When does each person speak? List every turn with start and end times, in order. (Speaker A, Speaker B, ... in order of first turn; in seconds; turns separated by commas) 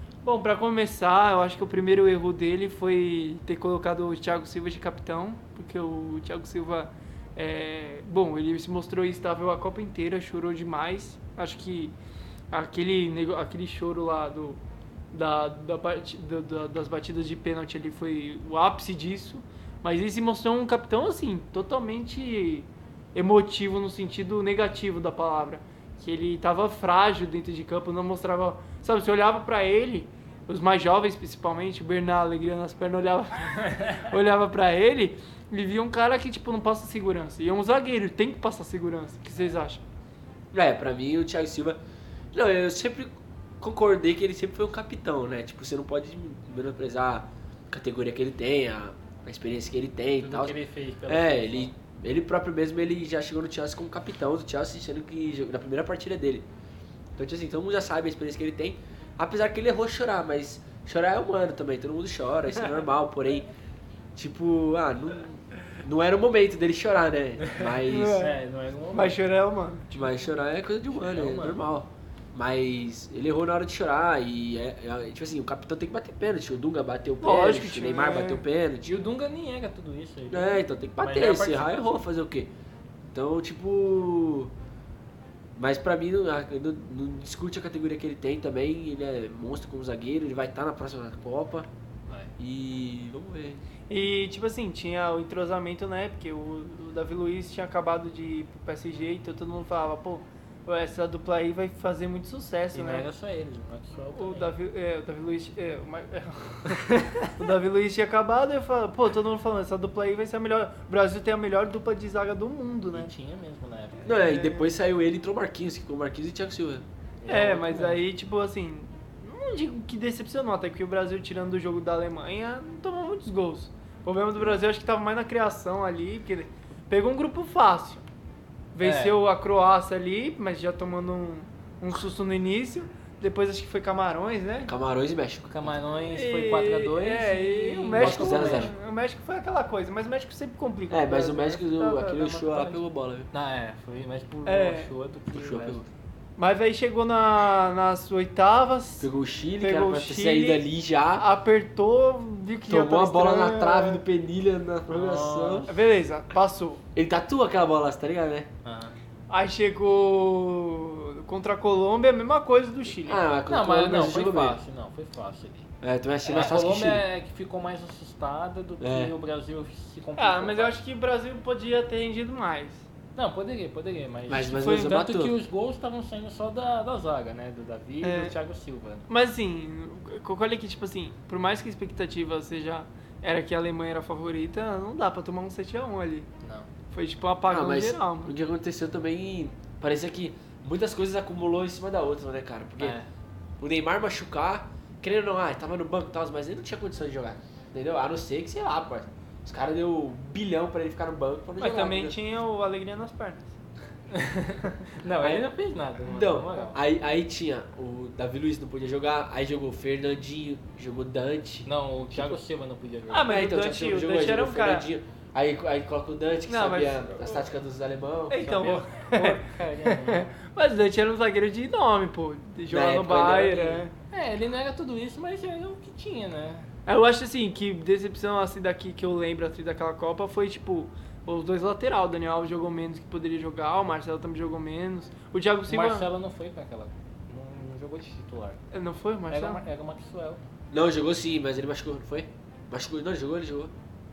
Speaker A: 0.2-11.9, Speaker A: 12.5-14.6, Speaker A: 15.1-39.8, Speaker B: 33.6-34.0, Speaker C: 40.5-41.8, Speaker C: 42.3-50.5, Speaker B: 50.2-51.7, Speaker C: 51.1-56.5, Speaker C: 57.2-63.5, Speaker C: 64.2-68.2, Speaker B: 67.4-69.2, Speaker A: 67.8-68.4, Speaker A: 68.9-70.0, Speaker C: 69.9-79.0, Speaker B: 70.9-71.6, Speaker A: 77.2-78.4, Speaker B: 78.8-82.0, Speaker C: 80.3-82.5, Speaker C: 83.1-84.5, Speaker C: 85.6-91.7, Speaker B: 92.1-92.3, Speaker C: 92.4-93.6, Speaker A: 93.9-103.0, Speaker B: 102.7-104.5, Speaker A: 104.1-113.1, Speaker B: 112.9-114.1, Speaker C: 114.0-116.8, Speaker A: 114.1-114.7, Speaker B: 117.2-118.0, Speaker A: 117.3-128.0, Speaker A: 128.7-134.7, Speaker B: 128.8-129.2, Speaker C: 134.7-135.8, Speaker B: 135.5-138.7, Speaker A: 136.1-142.8, Speaker C: 137.9-138.7, Speaker C: 140.9-143.3, Speaker B: 143.3-145.8, Speaker A: 144.4-144.9, Speaker C: 145.3-145.9, Speaker A: 146.4-150.6, Speaker C: 149.0-151.2, Speaker A: 151.2-154.0, Speaker C: 152.7-155.7, Speaker B: 154.9-155.7, Speaker A: 155.7-156.8, Speaker C: 156.9-158.5, Speaker B: 158.6-158.9, Speaker A: 159.3-163.2, Speaker C: 163.0-164.6, Speaker B: 163.4-165.7, Speaker C: 165.8-167.0, Speaker B: 166.2-170.8, Speaker C: 168.8-169.1, Speaker A: 170.2-172.8, Speaker B: 173.2-179.1, Speaker C: 174.3-175.3, Speaker A: 174.5-175.0, Speaker A: 178.0-178.3, Speaker A: 179.1-186.3, Speaker B: 186.4-186.7, Speaker A: 186.9-188.3, Speaker C: 187.5-193.0, Speaker B: 192.8-193.1, Speaker C: 193.6-202.2, Speaker A: 201.6-203.5, Speaker B: 204.1-206.8, Speaker C: 206.0-212.4, Speaker B: 211.6-213.4, Speaker A: 213.1-214.9, Speaker C: 213.2-218.5, Speaker A: 216.5-217.5, Speaker A: 218.3-223.9, Speaker B: 218.4-220.3, Speaker C: 222.7-223.9, Speaker B: 224.1-226.7, Speaker A: 226.9-236.1, Speaker B: 235.7-238.6, Speaker A: 238.7-239.6, Speaker B: 239.3-240.4, Speaker C: 240.7-243.7